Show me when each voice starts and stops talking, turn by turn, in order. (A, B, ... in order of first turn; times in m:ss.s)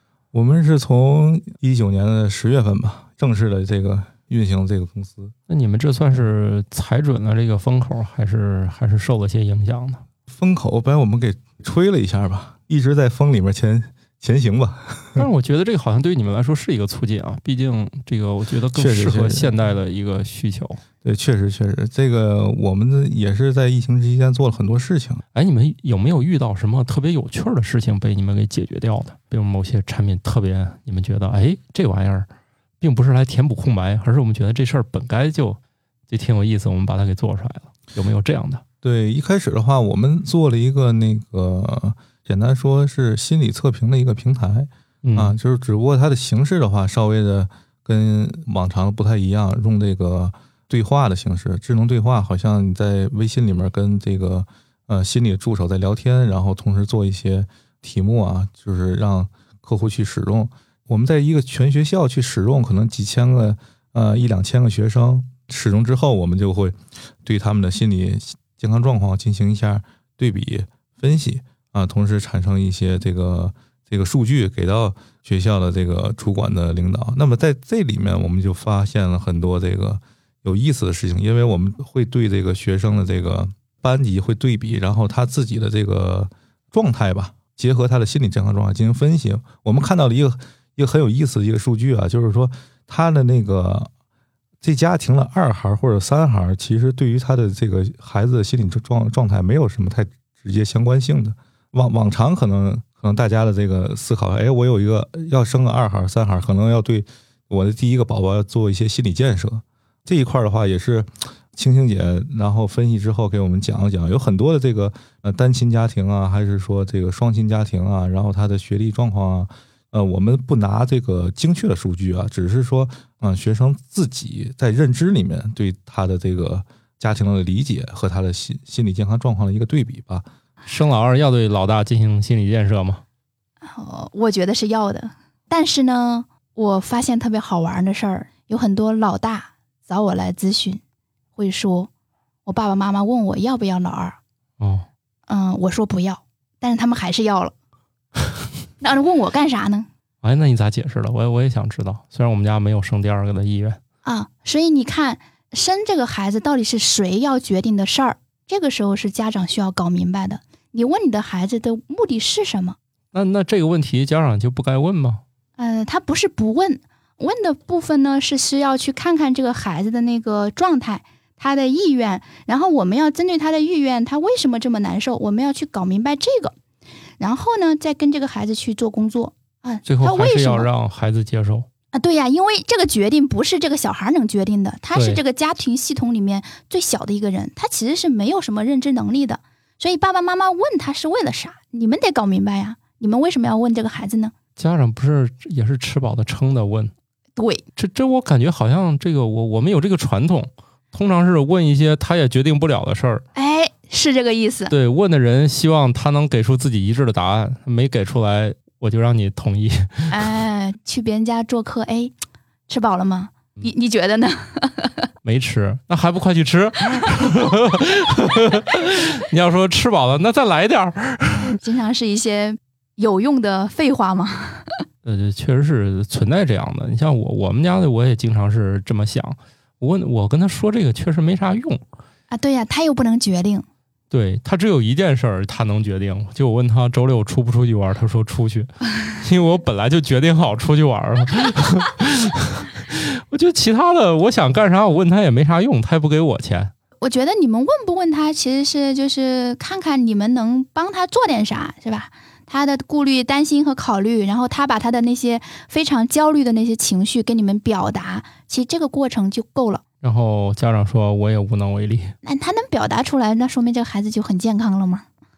0:00.3-0:05.3 A
0:05.5-0:10.0 B
0:10.3-0:15.3 A
0:15.2-0:20.8 B
0:18.8-0:19.5 A
0:21.0-0:25.2 A
0:25.3-0:32.3 B
0:32.8-0:38.6 B
0:38.8-1:33.9 A
0:45.0-0:45.4 B
1:34.6-2:10.3 A
2:10.7-2:13.0 B
2:13.6-2:20.8 C
2:21.4-2:21.9 C
2:22.5-2:24.2 C
2:24.6-2:24.9 B
2:25.3-2:27.5 C
2:28.8-2:29.9 C
2:30.2-2:33.8 B
2:34.0-2:42.8 C
2:43.1-2:45.2 B
2:45.6-2:56.5 C
2:57.2-3:00.7 C
2:59.9-3:01.7 B
3:01.9-3:14.3 C
3:04.9-3:05.2 B
3:14.6-3:16.9 B
3:17.4-3:17.6 C
3:17.8-3:23.2 B
3:23.4-3:24.7 C
3:24.7-3:30.2 B
3:30.1-3:32.1 C
3:32.7-3:35.1 C
3:35.2-3:41.5 B
3:41.5-3:44.8 C
3:45.0-3:51.8 B
3:52.3-3:53.6 C
3:54.1-4:06.7 B
4:07.0-4:19.8 C
4:20.0-4:22.2 B
4:22.2-4:25.0 C